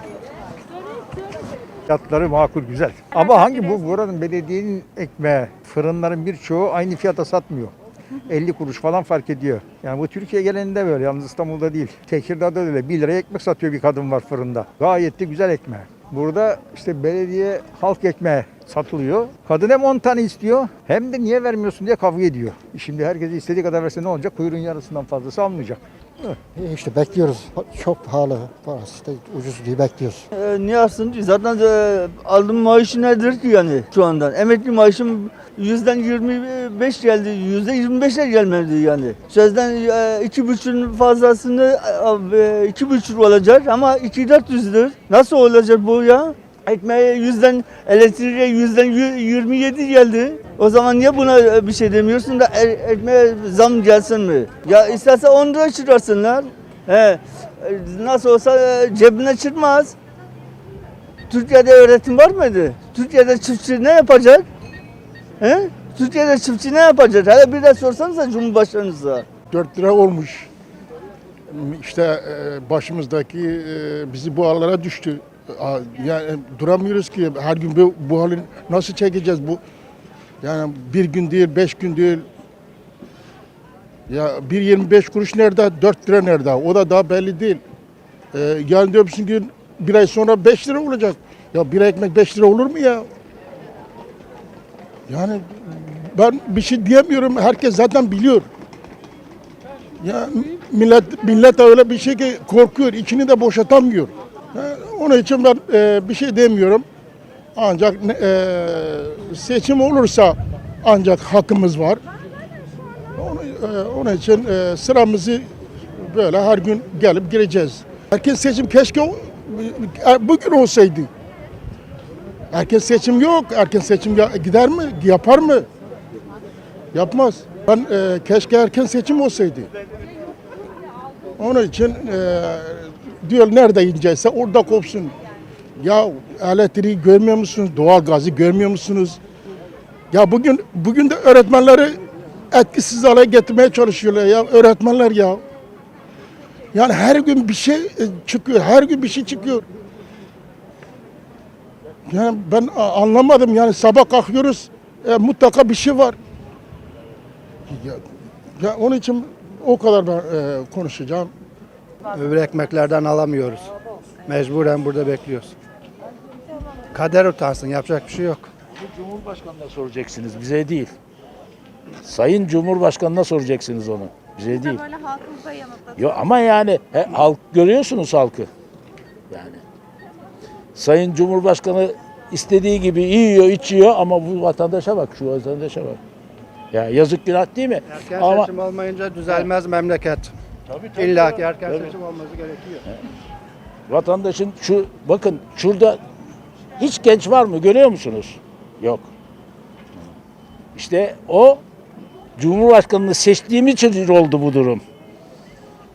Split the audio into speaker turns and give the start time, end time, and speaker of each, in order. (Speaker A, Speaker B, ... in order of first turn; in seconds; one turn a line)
Speaker A: 1.9-7.7
Speaker A: 8.3-25.8
Speaker B: 26.6-30.3
Speaker C: 30.3-46.4
Speaker C: 46.9-59.9
Speaker C: 61.3-64.4
Speaker C: 65.4-69.2
Speaker D: 69.5-70.5
Speaker D: 71.5-79.6
Speaker D: 80.4-82.2
Speaker D: 84.1-87.6
Speaker D: 88.3-93.1
Speaker D: 95.1-98.5
Speaker D: 100.0-106.8
Speaker D: 107.5-112.0
Speaker D: 113.2-121.1
Speaker D: 122.5-125.7
Speaker D: 126.9-129.7
Speaker D: 131.4-135.2
Speaker D: 135.8-139.2
Speaker D: 140.1-142.0
Speaker D: 142.5-145.4
Speaker D: 146.7-149.7
Speaker D: 152.1-156.2
Speaker D: 157.7-158.0
Speaker D: 158.6-161.3
Speaker E: 162.2-163.7
Speaker E: 164.3-165.5
Speaker E: 166.9-168.5
Speaker F: 168.9-170.9
Speaker F: 172.0-175.2
Speaker F: 175.9-178.5
Speaker F: 179.3-179.6
Speaker F: 180.8-186.0
Speaker F: 186.7-188.5
Speaker E: 188.0-190.3
Speaker F: 190.7-191.9
Speaker E: 191.0-192.8
Speaker F: 193.9-196.0
Speaker F: 196.8-199.1
Speaker F: 200.8-201.6
Speaker F: 202.4-204.8